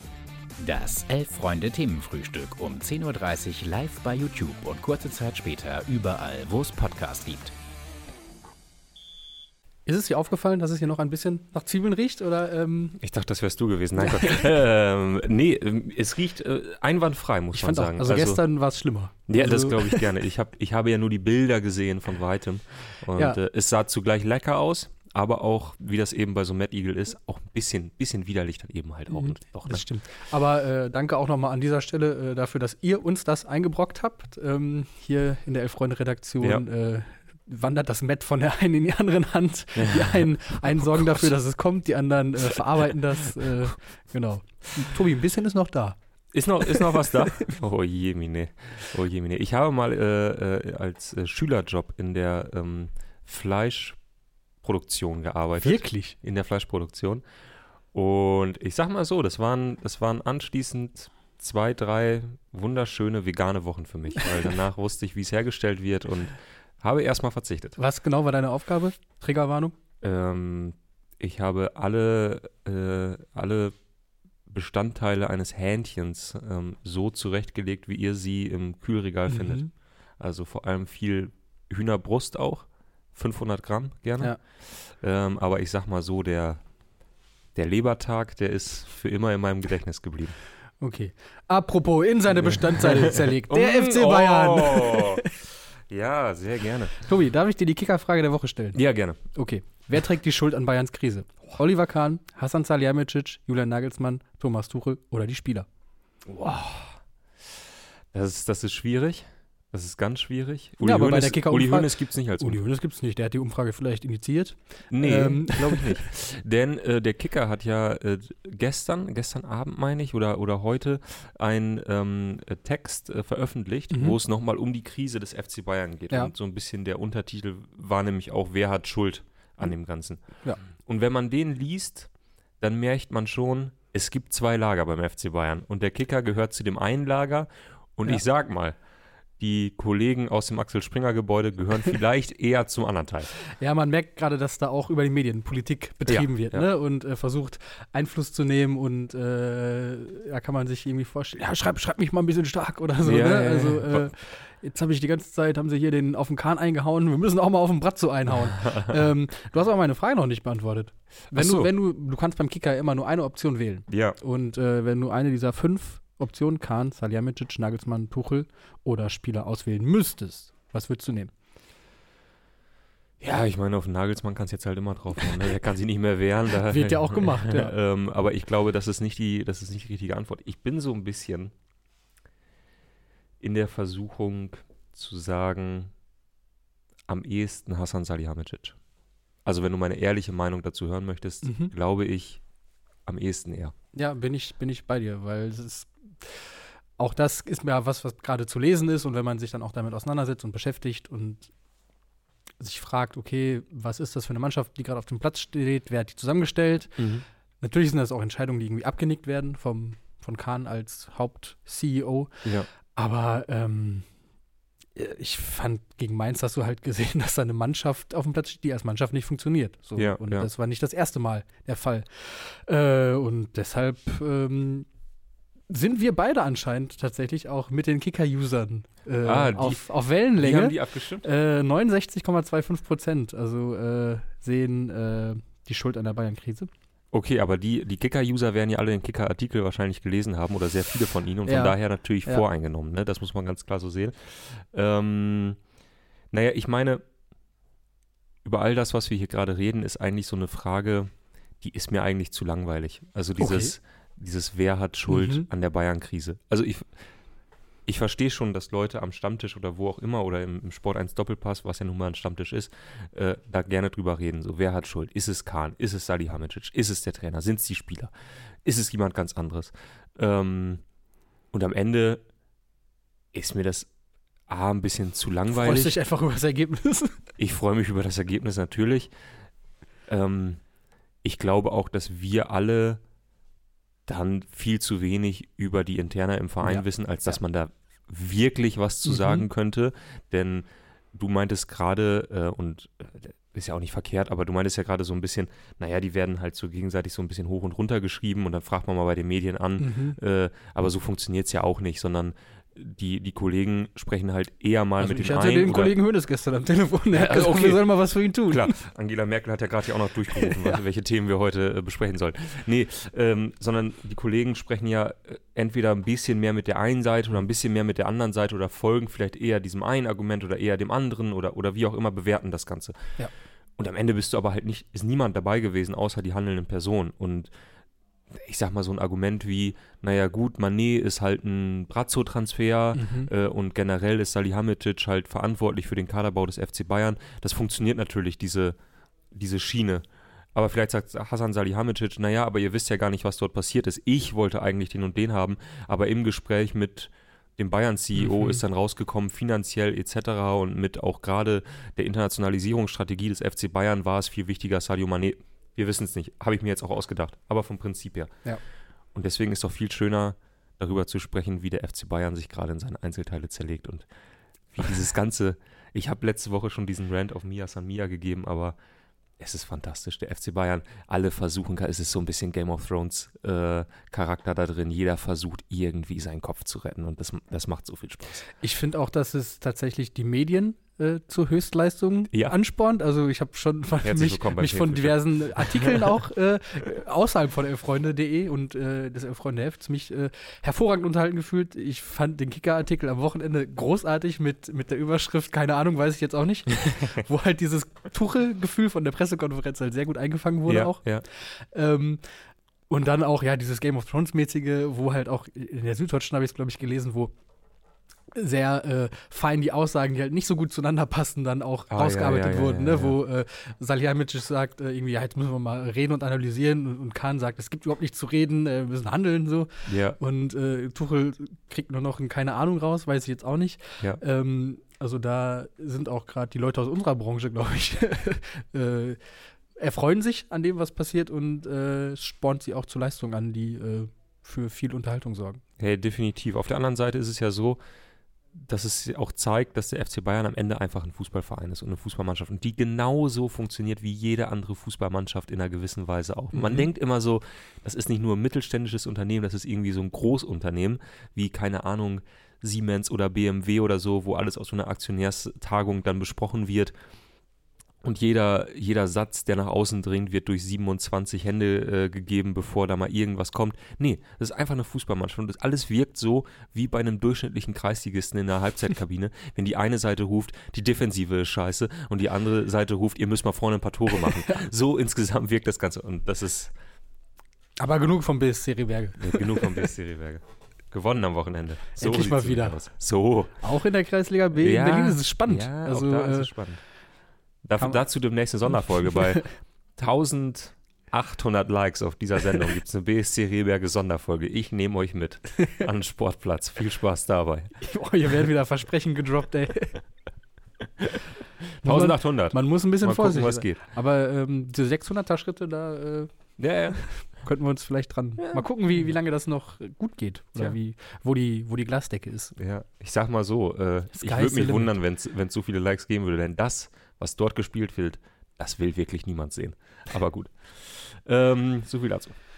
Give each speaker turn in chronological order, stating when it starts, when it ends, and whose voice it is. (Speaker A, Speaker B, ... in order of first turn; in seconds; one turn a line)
Speaker A: 0.6-7.5
Speaker B: 9.9-13.0
Speaker C: 13.0-18.4
Speaker B: 14.0-14.4
Speaker B: 17.5-20.1
Speaker C: 19.3-29.9
Speaker B: 29.1-46.0
Speaker C: 39.8-41.3
Speaker C: 46.3-54.0
Speaker B: 46.7-47.4
Speaker C: 54.6-57.2
Speaker B: 55.6-56.2
Speaker C: 57.9-67.8
Speaker B: 67.8-69.7
Speaker C: 70.0-73.8
Speaker C: 74.5-79.7
Speaker B: 79.3-79.7
Speaker C: 80.2-86.6
Speaker C: 87.5-90.4
Speaker B: 90.8-95.4
Speaker C: 92.5-95.3
Speaker C: 95.9-97.0
Speaker B: 97.0-98.8
Speaker C: 98.7-99.2
Speaker B: 99.3-105.7
Speaker C: 106.3-107.0
Speaker C: 108.1-112.6
Speaker B: 110.8-116.0
Speaker C: 114.9-138.8
Speaker B: 123.9-124.2
Speaker C: 139.4-143.3
Speaker B: 143.4-171.3
Speaker C: 146.1-146.6
Speaker C: 153.0-154.1
Speaker C: 158.6-159.0
Speaker C: 161.3-161.7
Speaker C: 163.9-164.2
Speaker C: 173.2-181.5
Speaker B: 176.7-177.8
Speaker C: 183.4-185.9
Speaker C: 187.1-188.8
Speaker C: 189.4-192.4
Speaker B: 191.4-191.7
Speaker C: 193.1-193.7
Speaker B: 193.9-201.5
Speaker B: 202.6-207.0
Speaker C: 207.0-207.2
Speaker B: 207.6-214.1
Speaker B: 215.0-224.9
Speaker C: 220.0-220.5
Speaker B: 225.7-236.7
Speaker C: 229.2-231.2
Speaker C: 237.1-245.6
Speaker B: 241.5-242.4
Speaker C: 246.3-247.0
Speaker C: 248.4-257.1
Speaker B: 253.4-253.8
Speaker B: 255.1-255.5
Speaker C: 257.9-268.1
Speaker C: 268.6-270.8
Speaker C: 271.5-272.2
Speaker C: 273.3-273.9
Speaker C: 274.5-276.0
Speaker B: 275.5-277.2
Speaker C: 277.4-279.1
Speaker C: 280.1-280.6
Speaker C: 281.2-283.0
Speaker C: 284.1-305.9
Speaker B: 289.1-289.5
Speaker B: 299.8-300.2
Speaker B: 305.0-308.7
Speaker C: 307.1-307.9
Speaker C: 308.5-323.2
Speaker B: 310.4-310.8
Speaker C: 323.8-327.5
Speaker C: 328.3-338.8
Speaker B: 332.9-333.3
Speaker C: 339.3-358.4
Speaker B: 348.2-348.6
Speaker C: 359.1-364.1
Speaker C: 364.7-368.8
Speaker C: 369.4-378.4
Speaker B: 378.6-402.2
Speaker C: 384.0-386.2
Speaker C: 400.7-401.2
Speaker B: 402.9-407.3
Speaker B: 408.4-429.2
Speaker C: 411.9-413.2
Speaker C: 419.9-420.2
Speaker B: 429.8-435.6
Speaker C: 435.8-437.8
Speaker C: 438.5-456.9
Speaker B: 446.5-446.9
Speaker C: 458.0-476.7
Speaker B: 477.8-479.9
Speaker C: 479.2-483.6
Speaker B: 482.0-482.8
Speaker B: 483.6-486.5
Speaker C: 484.6-486.8
Speaker C: 487.6-489.4
Speaker B: 489.1-489.5
Speaker C: 490.0-497.7
Speaker B: 497.8-500.0
Speaker C: 501.6-503.8
Speaker B: 501.8-506.3
Speaker C: 506.6-507.1
Speaker B: 506.9-512.5
Speaker C: 508.4-508.7
Speaker C: 512.6-522.4
Speaker B: 514.1-514.9